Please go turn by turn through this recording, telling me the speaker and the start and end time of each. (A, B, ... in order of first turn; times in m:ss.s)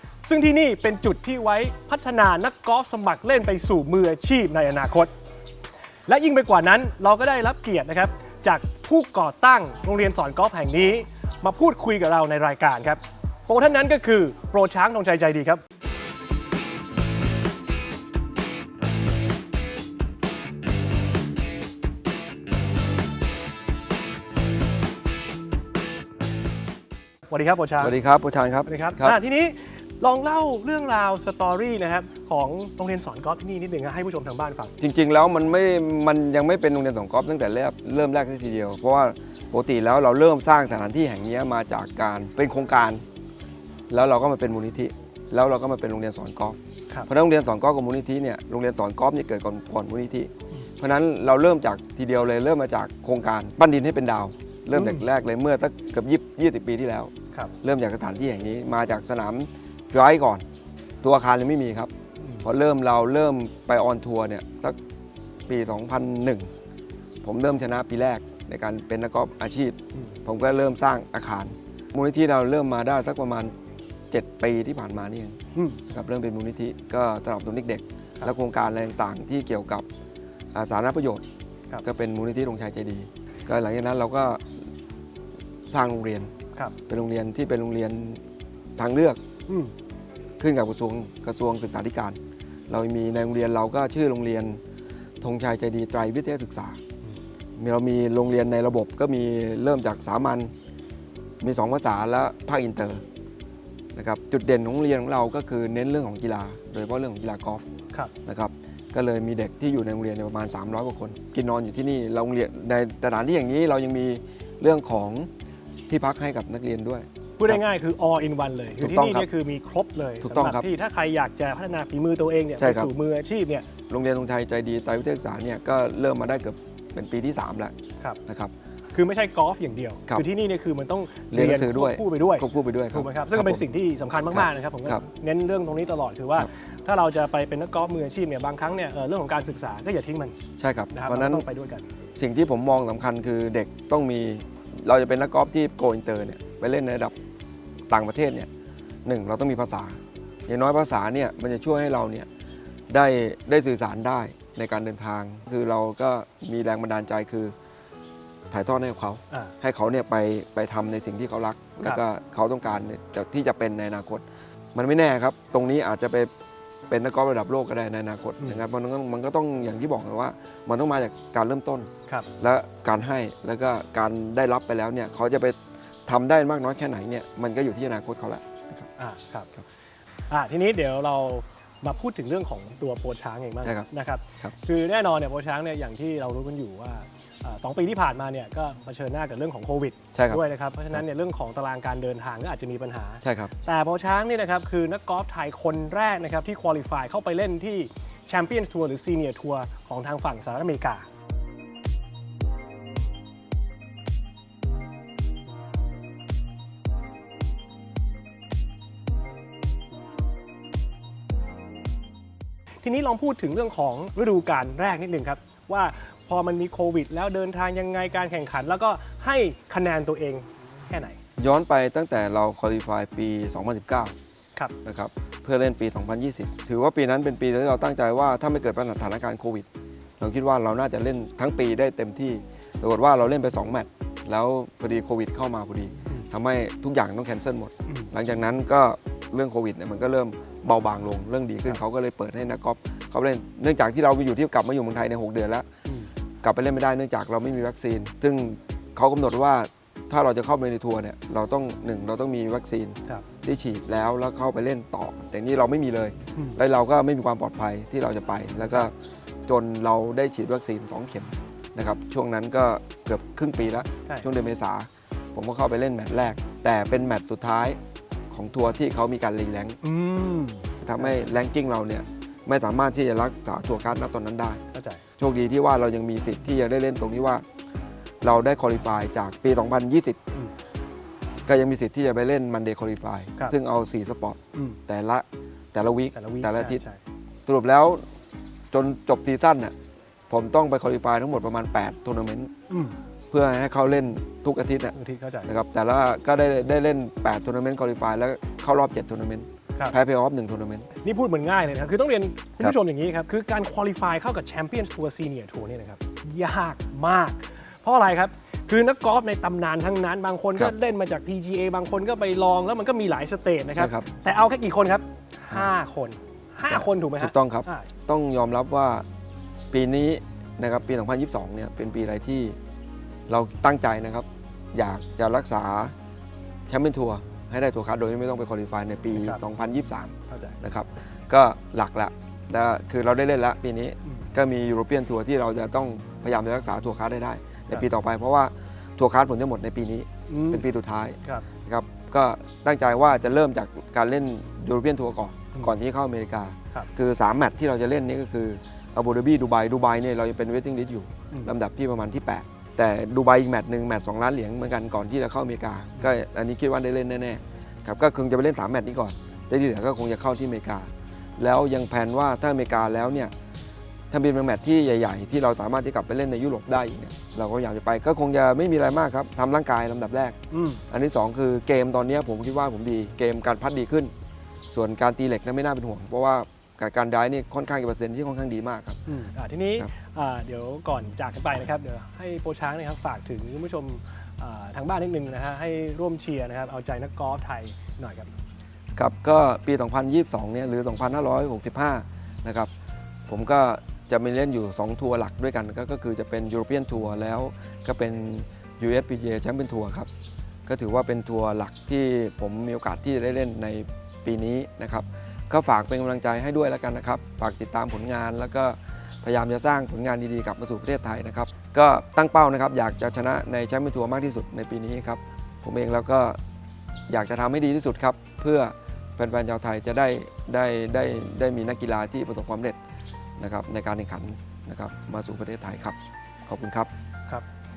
0:00.2-0:05.1 A
0:06.1-0:15.6 A
0:27.3-0:27.9 A
0:27.8-0:29.2 B
0:28.6-0:34.7 A
0:34.8-0:43.0 B
0:43.9-1:00.4 B
0:54.7-0:55.0 A
1:01.0-1:01.9 B
1:02.2-1:02.4 A
1:02.4-1:04.8 B
1:05.5-1:06.5 B
1:07.2-1:13.5 B
1:14.1-1:19.8 B
1:15.5-1:15.8 A
1:20.5-1:21.2 B
1:21.8-1:24.6 B
1:25.7-1:26.3 B
1:26.9-1:28.2 B
1:28.8-1:29.2 B
1:30.4-1:32.2 B
1:32.7-1:34.6 B
1:35.2-1:36.8 B
1:37.6-1:40.5 B
1:41.4-1:43.0 B
1:43.9-1:47.7 B
1:48.2-1:55.3 B
1:55.9-1:57.6 B
1:57.4-2:03.7 A
1:58.8-1:59.3 B
2:00.2-2:00.7 B
2:02.6-2:02.9 B
2:03.9-2:07.7 B
2:08.3-2:08.5 B
2:08.9-2:20.3 A
2:11.3-2:13.6 B
2:14.3-2:15.0 B
2:20.6-2:21.4 B
2:20.9-2:21.9 A
2:22.2-2:27.1 B
2:27.9-2:28.5 B
2:29.0-2:32.3 B
2:32.9-2:37.5 B
2:38.5-2:46.3 B
2:46.9-2:51.9 B
2:52.4-2:58.9 B
2:59.0-2:59.5 A
3:00.3-3:21.0 A
3:10.1-3:10.4 B
3:13.2-3:13.5 B
3:32.8-3:41.2 A
3:41.4-3:44.1 B
3:44.8-3:49.7 B
3:50.2-4:05.7 B
3:57.9-3:58.1 A
4:06.4-4:18.9 B
4:19.4-4:27.8 B
4:28.3-4:29.8 B
4:29.8-4:31.1 A
4:30.8-4:34.6 B
4:34.7-4:35.0 A
4:35.2-4:37.4 B
4:38.2-4:40.2 B
4:41.4-4:46.8 B
4:46.1-4:47.0 A
4:47.5-4:48.0 B
4:48.7-4:49.7 B
4:50.3-4:52.5 B
4:52.7-4:53.0 A
4:53.3-4:54.9 B
4:54.9-4:55.5 A
4:55.5-5:00.9 B
5:01.0-5:17.9 A
5:13.8-5:14.1 B
5:16.7-5:19.0 B
5:19.7-5:22.6 B
5:23.3-5:25.9 B
5:26.7-6:03.3 B
5:29.1-5:29.4 A
5:30.3-5:30.6 A
5:40.3-5:40.6 A
6:04.1-6:10.4 B
6:10.5-6:10.8 A
6:10.9-6:14.1 B
6:14.7-6:19.0 B
6:19.1-6:28.3 A
6:29.0-6:32.7 B
6:33.3-6:40.1 B
6:40.6-6:56.4 B
6:57.1-7:02.8 B
7:03.4-7:06.9 B